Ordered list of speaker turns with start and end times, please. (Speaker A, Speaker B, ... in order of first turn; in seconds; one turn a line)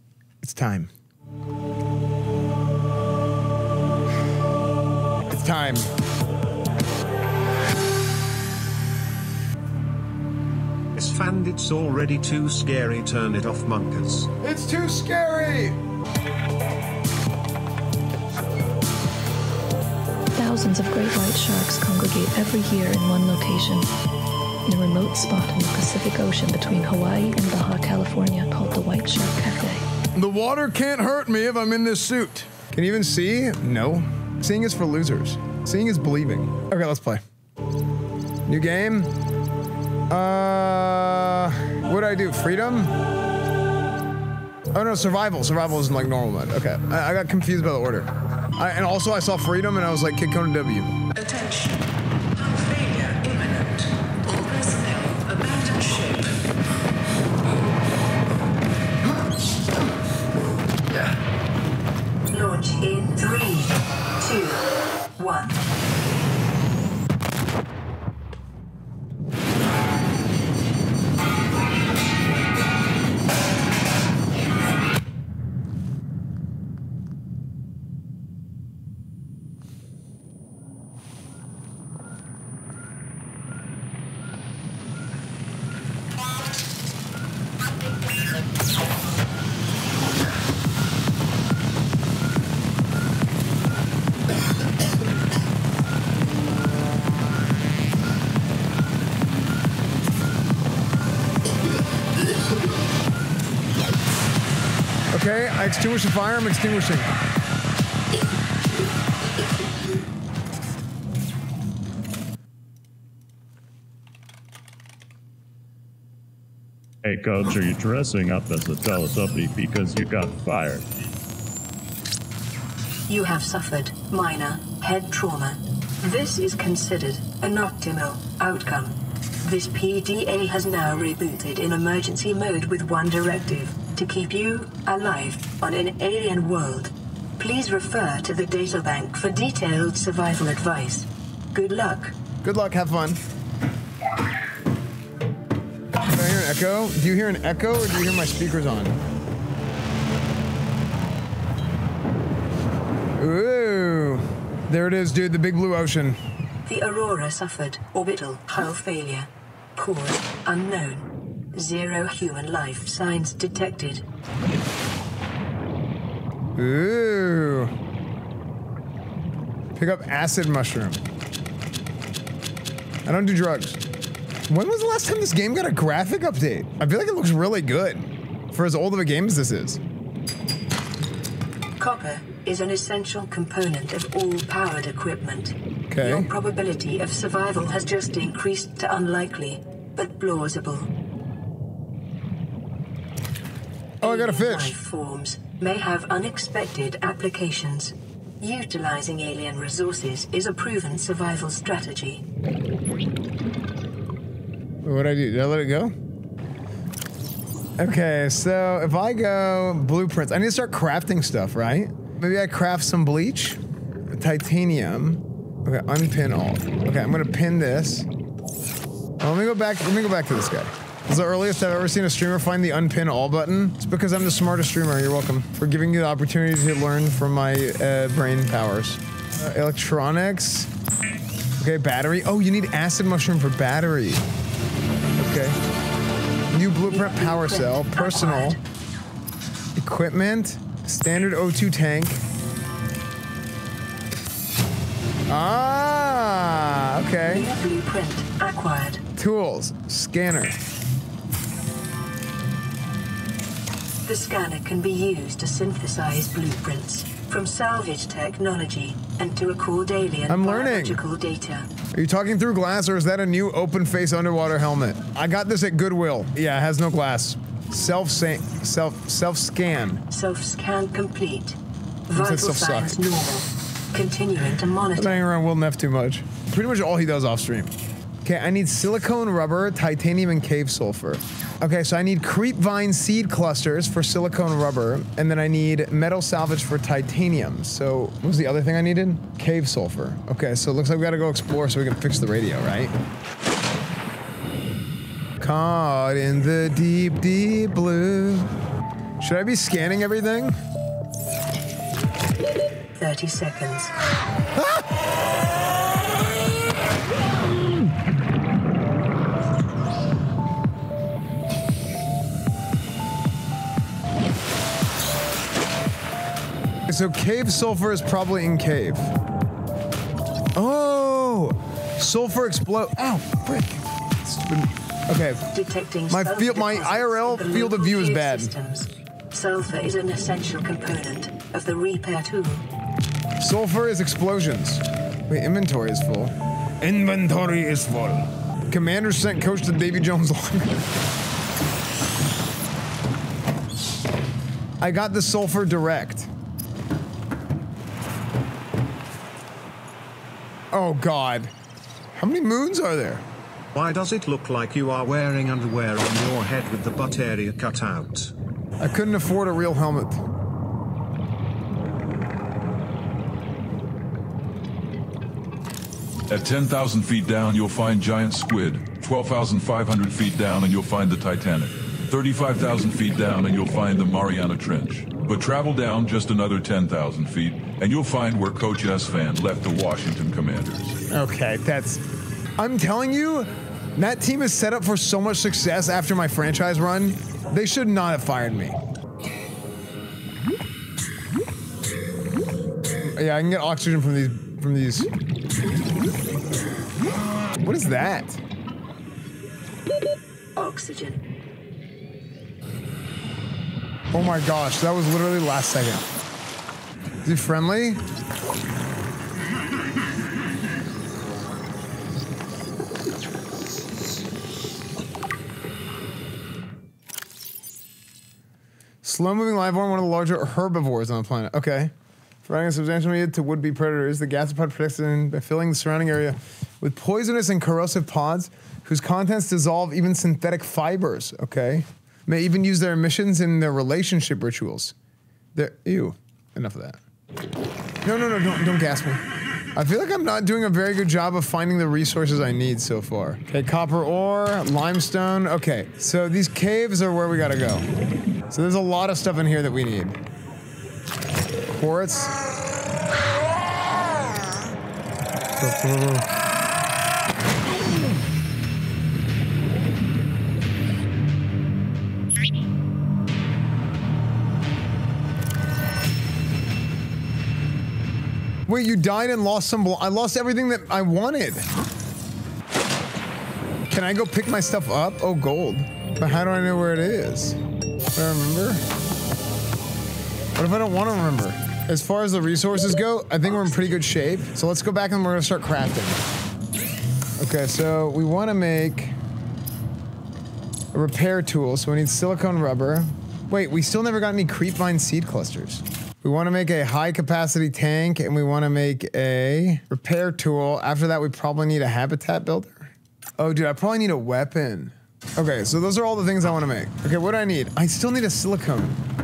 Speaker A: 0.4-0.9
Speaker A: 5.3-5.9
Speaker B: 10.9-14.3
Speaker A: 14.4-15.8
Speaker C: 20.3-23.9
Speaker C: 24.6-29.8
Speaker A: 30.1-37.2
Speaker A: 38.5-39.1
Speaker A: 40.1-42.9
Speaker A: 44.7-50.9
Speaker D: 55.0-56.0
Speaker D: 62.3-65.6
Speaker A: 105.1-107.1
Speaker E: 117.0-120.8
Speaker D: 123.1-142.1
Speaker A: 142.4-143.2
Speaker A: 146.1-149.0
Speaker A: 153.2-156.2
Speaker D: 156.7-164.0
Speaker A: 166.6-167.7
Speaker A: 169.8-171.0
Speaker A: 173.1-173.8
Speaker A: 174.5-179.8
Speaker D: 181.8-190.9
Speaker A: 185.9-186.3
Speaker A: 194.0-194.7
Speaker D: 194.0-202.2
Speaker A: 204.8-205.9
Speaker A: 207.8-218.1
Speaker A: 219.2-230.7
Speaker A: 231.6-234.2
Speaker A: 235.2-235.6
Speaker A: 236.5-238.6
Speaker D: 236.9-238.6
Speaker A: 239.8-242.2
Speaker A: 245.3-247.5
Speaker D: 247.2-249.0
Speaker A: 249.2-250.6
Speaker D: 254.0-261.7
Speaker A: 260.3-261.0
Speaker A: 261.9-270.0
Speaker D: 270.1-275.2
Speaker A: 272.1-273.0
Speaker A: 275.0-277.7
Speaker A: 278.2-292.9
Speaker A: 295.4-298.5
Speaker A: 299.2-300.6
Speaker D: 302.9-303.9
Speaker A: 316.9-319.1
Speaker A: 320.5-325.4
Speaker D: 325.5-332.6
Speaker A: 326.1-328.5
Speaker A: 333.4-340.9
Speaker A: 344.8-346.3
Speaker A: 350.7-351.5
Speaker A: 352.1-353.2
Speaker B: 353.7-358.3
Speaker A: 358.8-360.2
Speaker F: 366.3-381.0
Speaker A: 381.1-382.0
Speaker A: 382.6-388.8
Speaker A: 393.0-395.1
Speaker A: 397.6-398.4
Speaker D: 400.6-401.2
Speaker A: 404.1-406.0
Speaker A: 407.2-408.0
Speaker A: 419.0-421.9
Speaker A: 422.4-434.9
Speaker A: 435.5-437.0
Speaker A: 438.0-439.2
Speaker A: 439.7-447.9
Speaker A: 448.5-450.2
Speaker A: 451.7-452.3
Speaker A: 455.6-456.3
Speaker A: 468.7-471.7
Speaker A: 473.9-477.6
Speaker A: 478.1-478.8
Speaker A: 480.6-486.2
Speaker A: 487.4-489.1
Speaker A: 490.9-509.0